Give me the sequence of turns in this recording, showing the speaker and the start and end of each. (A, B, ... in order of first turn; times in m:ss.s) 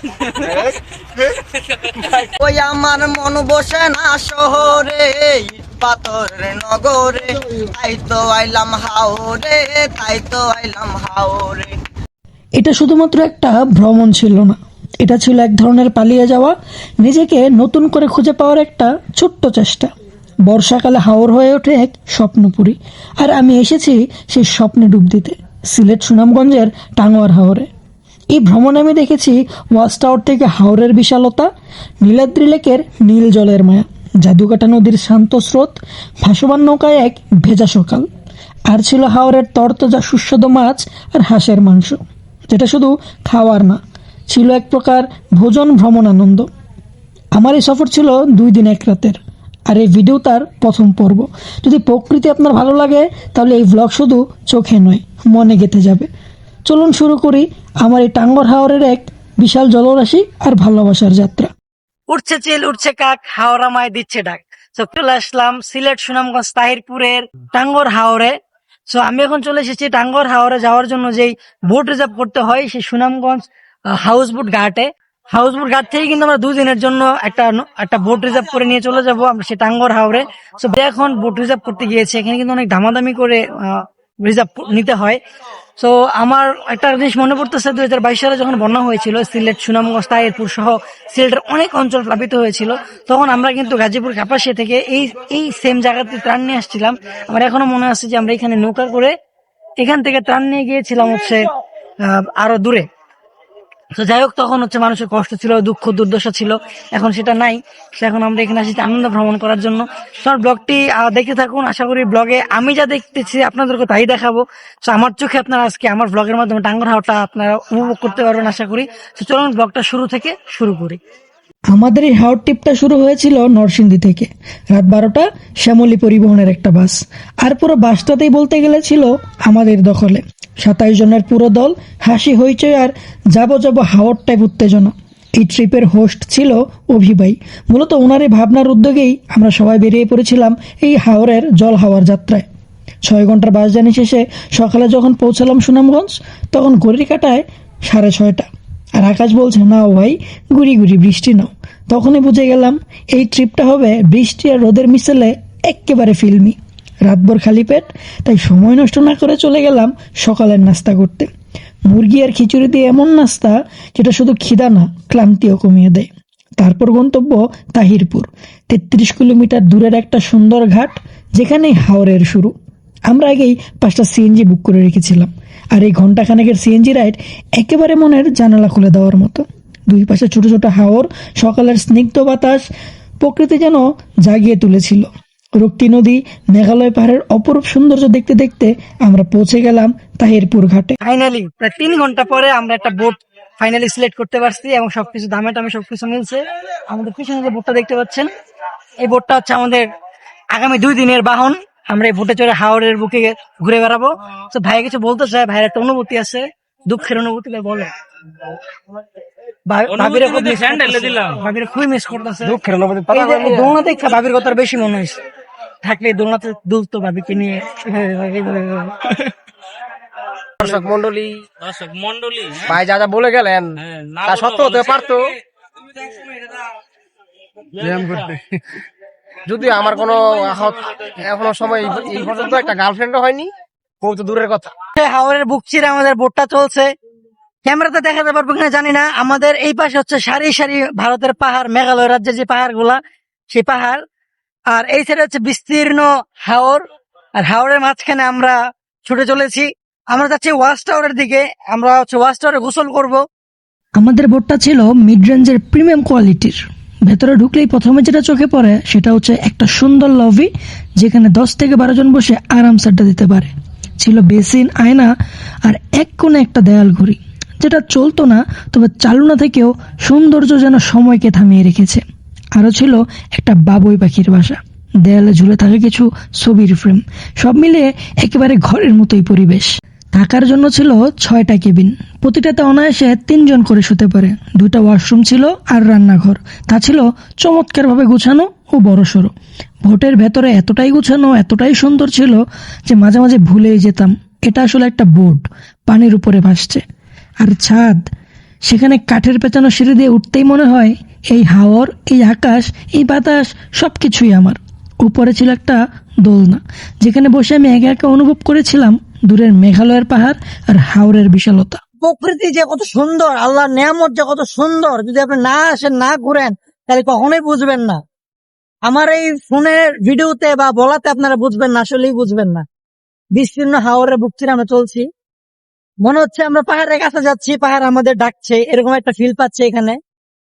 0:02.4-0:11.8 A
0:12.6-0:19.9 B
0:20.5-0:27.7 B
0:28.3-0:31.5 B
0:32.0-0:38.1 B
0:38.7-0:46.5 B
0:47.4-0:56.1 B
0:56.7-1:01.5 B
1:02.1-1:08.3 C
1:08.9-1:13.4 C
1:14.0-1:25.2 C
1:25.8-1:39.1 C
1:39.8-1:41.5 C
1:42.0-1:42.9 C
1:44.0-2:01.0 C
2:01.7-2:22.5 B
2:23.0-2:28.5 B
2:29.0-2:41.3 B
2:41.9-2:52.5 B
2:53.1-3:02.7 B
3:03.2-3:11.0 B
3:11.0-3:18.3 C
3:19.0-3:19.9 C
3:20.5-3:27.9 C
3:29.7-3:35.2 C
3:30.0-3:31.4 D
3:32.4-3:33.7 E
3:35.8-3:39.2 C
3:40.6-3:41.4 E
3:41.6-3:42.7 D
3:42.7-3:45.3 E
3:43.8-3:45.0 D
3:47.8-3:48.4 E
3:49.5-3:54.7 E
3:55.0-3:56.9 C
3:57.6-4:03.0 C
4:03.5-4:04.0 C
4:04.7-4:06.8 C
4:07.4-4:13.2 C
4:14.0-4:25.1 B
4:25.6-4:32.0 B
4:32.6-4:49.3 B
4:49.8-4:56.8 B
4:57.4-4:58.1 B
4:58.7-5:11.8 B
5:12.0-5:18.0 C
5:18.9-5:22.6 C
5:23.4-5:25.0 C
5:26.0-5:30.0 C